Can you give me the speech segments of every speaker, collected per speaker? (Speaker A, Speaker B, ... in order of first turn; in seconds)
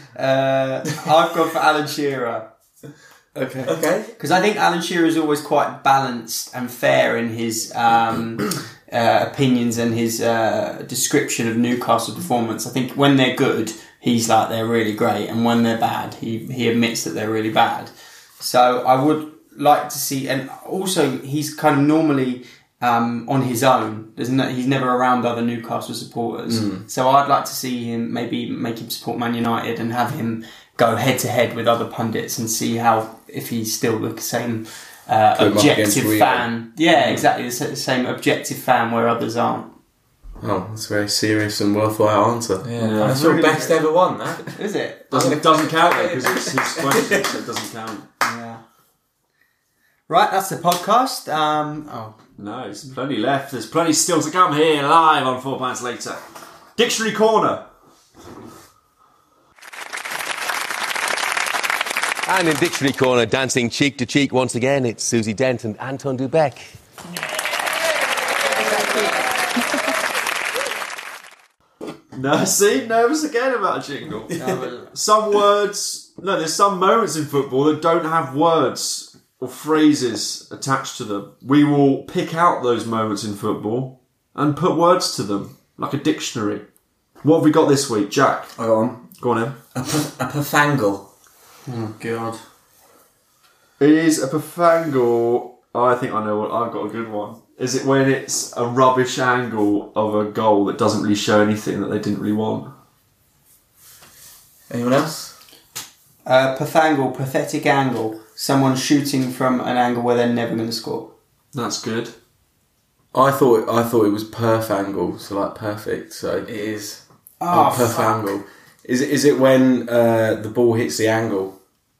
Speaker A: 0.1-2.5, 3.4-39.7, 43.0-43.8, 44.5-45.2, 48.2-48.6, 50.1-52.1, 74.3-74.9, 91.7-92.4, 106.2-111.1, 117.4-118.2
Speaker B: 3.6-4.1, 42.6-44.5, 45.1-47.4, 88.6-89.1, 89.7-91.1, 104.7-105.3, 116.5-117.0, 117.5-118.0
Speaker C: 26.5-26.8, 35.3-36.5, 40.4-42.6, 113.1-116.5, 117.5-121.5
Speaker D: 36.9-37.2, 42.8-43.3, 45.1-48.0, 52.4-56.2, 56.8-57.6, 72.1-86.6, 87.2-88.5, 89.2-89.5, 93.8-102.7, 111.5-112.1
Speaker E: 62.2-66.8